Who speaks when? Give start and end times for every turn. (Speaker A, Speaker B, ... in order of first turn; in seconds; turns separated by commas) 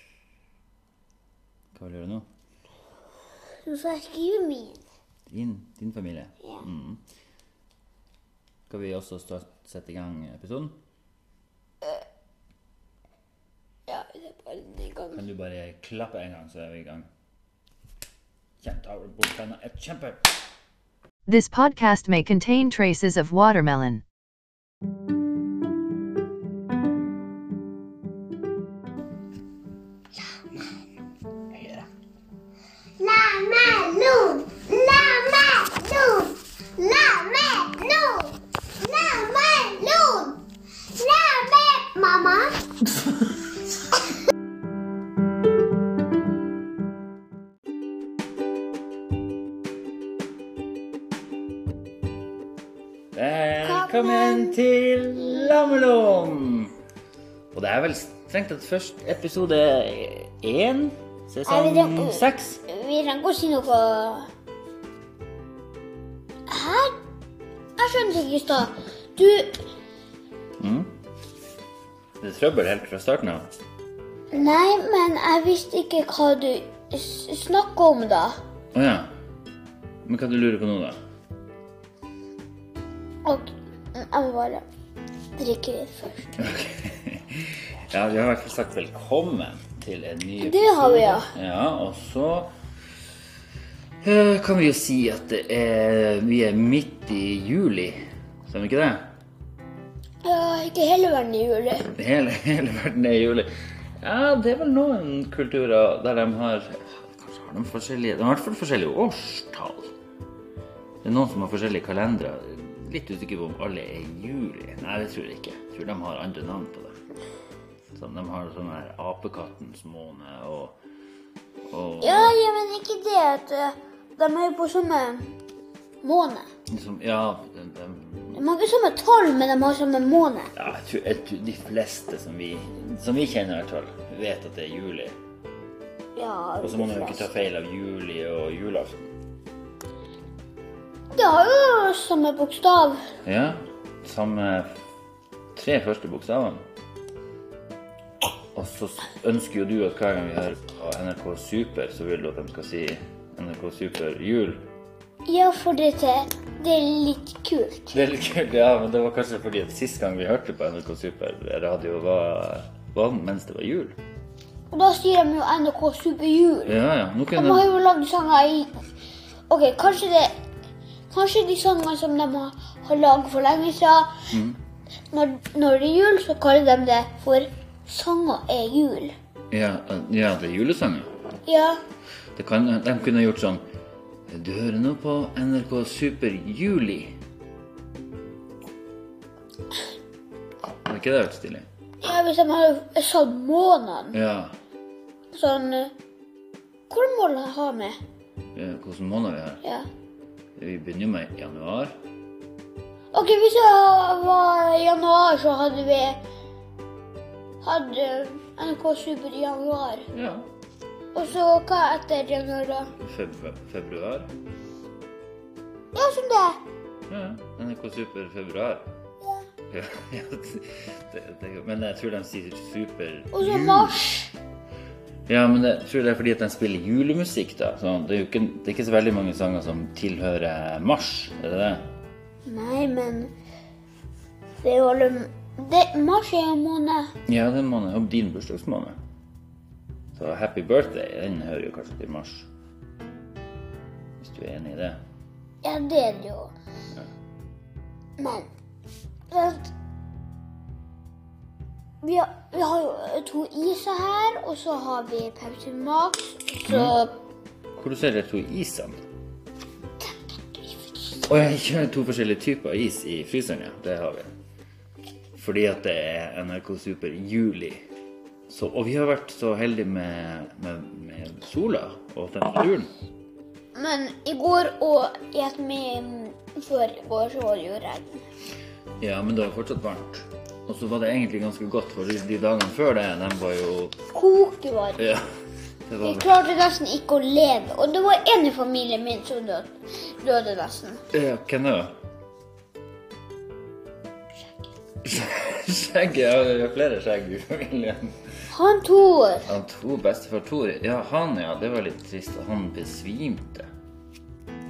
Speaker A: 1.7-2.3, Speaker B: 3.5-4.8, Speaker A: 5.3-7.0, Speaker A: 8.7-10.8, Speaker B: 13.9-15.2, Speaker A: 15.1-17.1, Speaker A: 18.6-20.4, Speaker C: 21.3-24.0, Speaker A: 31.5-31.9, Speaker B: 33.0-42.6, Speaker A: 53.1-56.7, Speaker B: 53.6-54.6, Speaker B: 55.1-55.9, Speaker A: 57.5-62.6, Speaker B: 61.5-64.3, Speaker B: 66.5-67.0, Speaker B: 67.8-69.6, Speaker A: 70.6-70.9, Speaker A: 72.2-73.5, Speaker B: 74.3-78.4, Speaker A: 78.7-79.1, Speaker A: 80.0-81.0, Speaker B: 83.2-84.7, Speaker B: 85.4-86.3, Speaker A: 86.4-92.5, Speaker B: 90.4-91.3, Speaker A: 94.0-99.1, Speaker B: 100.2-101.9, Speaker A: 101.9-109.9, Speaker A: 111.0-117.0, Speaker A: 118.0-120.8, Speaker A: 121.7-122.3, Speaker B: 122.0-125.3, Speaker B: 126.0-126.5, Speaker A: 126.7-128.4, Speaker B: 128.3-130.5, Speaker A: 130.6-135.2, Speaker B: 136.2-137.3, Speaker A: 136.6-139.1, Speaker B: 141.1-143.1, Speaker A: 143.2-144.8, Speaker A: 145.5-146.6, Speaker A: 148.5-154.7, Speaker B: 155.3-158.0, Speaker A: 157.9-164.0, Speaker B: 164.7-166.8, Speaker A: 166.7-167.7, Speaker B: 167.3-168.9, Speaker B: 169.5-170.4, Speaker B: 171.1-174.3, Speaker A: 174.3-174.6, Speaker B: 175.1-179.1, Speaker A: 179.5-181.1, Speaker B: 181.5-181.8, Speaker A: 182.4-183.6, Speaker A: 184.3-187.2, Speaker A: 190.8-191.7, Speaker B: 192.0-194.2, Speaker A: 194.1-194.6, Speaker B: 195.3-195.9, Speaker B: 196.9-198.0, Speaker A: 198.5-199.6, Speaker B: 199.6-199.9, Speaker A: 200.6-202.0, Speaker B: 203.1-206.2, Speaker B: 207.6-210.1, Speaker A: 210.1-210.5, Speaker B: 211.1-212.9, Speaker A: 212.9-214.3, Speaker B: 215.9-216.6, Speaker A: 217.1-218.9, Speaker A: 219.7-224.1, Speaker B: 223.3-224.3, Speaker A: 225.3-231.9, Speaker B: 232.4-233.3, Speaker B: 234.6-237.1, Speaker A: 237.3-239.0, Speaker A: 240.2-242.5, Speaker A: 244.2-245.0, Speaker B: 245.6-246.5, Speaker B: 248.2-248.5, Speaker B: 249.3-249.7, Speaker B: 252.0-257.1, Speaker A: 256.7-257.0, Speaker A: 257.8-259.0, Speaker B: 260.0-261.1, Speaker A: 261.2-264.3, Speaker A: 265.4-267.8, Speaker A: 268.5-272.9, Speaker B: 273.7-278.3, Speaker A: 279.0-284.0, Speaker B: 284.1-285.1, Speaker A: 285.0-285.3, Speaker A: 285.9-286.4, Speaker B: 286.0-291.0, Speaker A: 291.1-291.9, Speaker A: 295.0-298.3, Speaker B: 298.5-299.5, Speaker A: 299.5-303.7